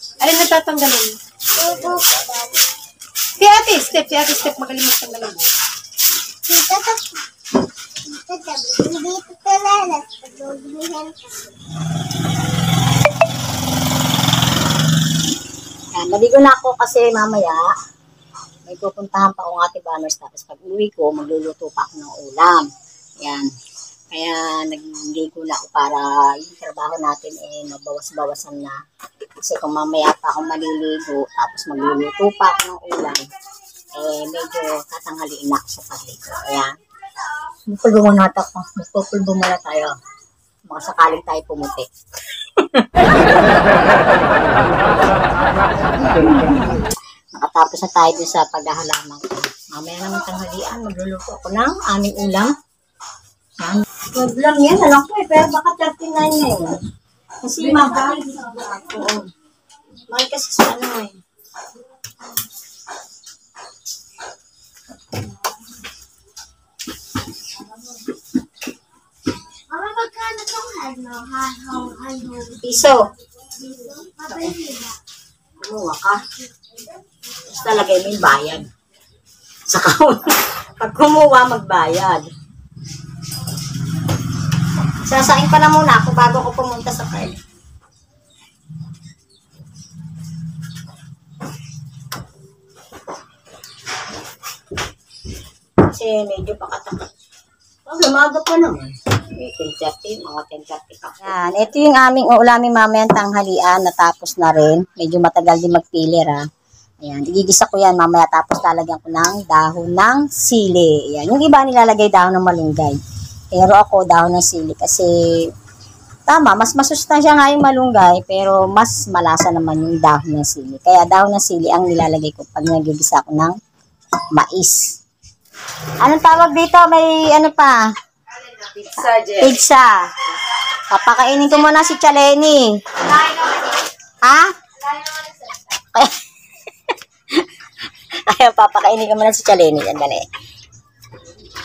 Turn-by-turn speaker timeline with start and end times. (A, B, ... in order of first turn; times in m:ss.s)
0:00.2-0:01.2 A
0:01.5-0:02.6 B
0:03.4-0:05.5 A
0:06.4-0:07.2 B
0:08.0-0:11.5 B
0:15.9-0:17.7 C
0:18.6-0:22.7 C
0:23.2-0:23.5 C
0:24.1-0:28.8 C
0:29.4-0:33.3 C
0:33.9-0:36.8 C
0:37.7-0:40.0 C
0:40.7-0:41.9 C
0:42.6-0:42.9 C
0:47.3-0:52.5 C
0:53.6-0:56.8 C
0:57.4-0:59.3 C
1:00.1-1:01.2 C
1:09.7-1:12.6 B
1:12.5-1:13.1 C
1:13.8-1:15.0 B
1:15.6-1:16.2 C
1:17.3-1:18.7 C
1:19.7-1:22.3 C
1:25.0-1:27.4 C
1:35.8-1:37.0 C
1:37.9-1:46.4 C
1:47.0-1:53.0 C
1:53.5-1:55.5 C
1:56.3-2:03.6 C
2:04.3-2:04.9 C
2:06.0-2:07.9 C
2:08.6-2:09.4 A
2:09.1-2:10.1 C
2:10.9-2:13.4 C
2:14.2-2:14.5 C
2:15.7-2:16.2 C
2:18.3-2:20.3 C